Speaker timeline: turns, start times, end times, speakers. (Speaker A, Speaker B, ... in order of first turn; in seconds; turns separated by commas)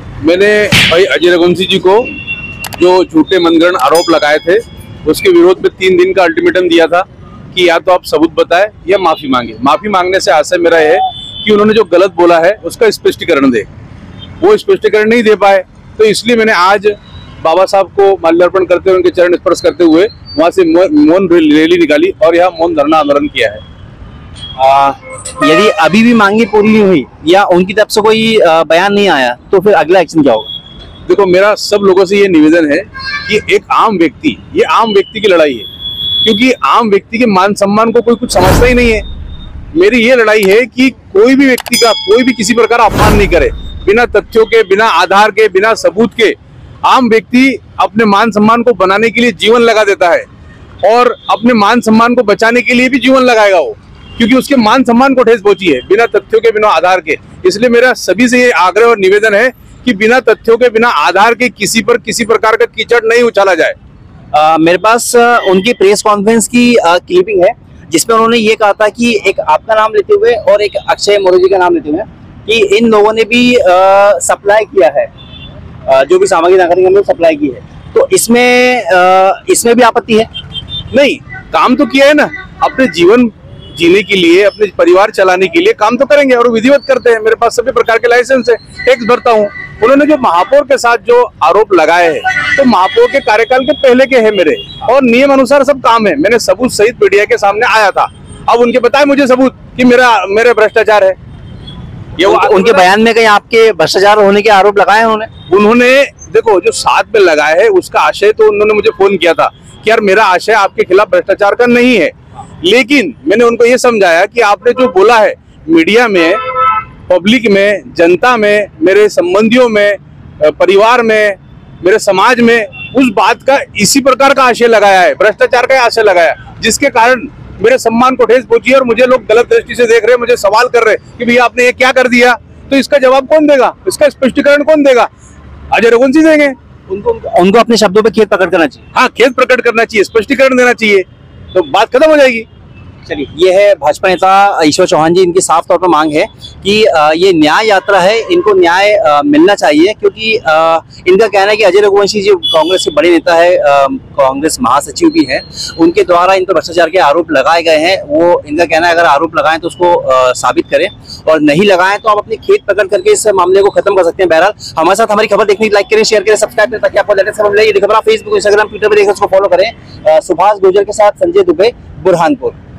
Speaker A: 0.2-2.1, Speaker A: 2.8-13.7, Speaker A: 14.4-23.6, Speaker B: 24.6-30.5, Speaker A: 31.1-35.7, Speaker A: 36.2-39.0, Speaker A: 39.7-50.3, Speaker A: 50.8-63.8, Speaker B: 64.3-75.1, Speaker B: 75.9-80.3, Speaker A: 80.9-101.2, Speaker A: 102.2-102.9, Speaker B: 102.2-105.3, Speaker A: 105.5-135.1, Speaker A: 135.7-136.6, Speaker B: 136.9-138.8, Speaker A: 138.9-142.5, Speaker B: 143.1-172.6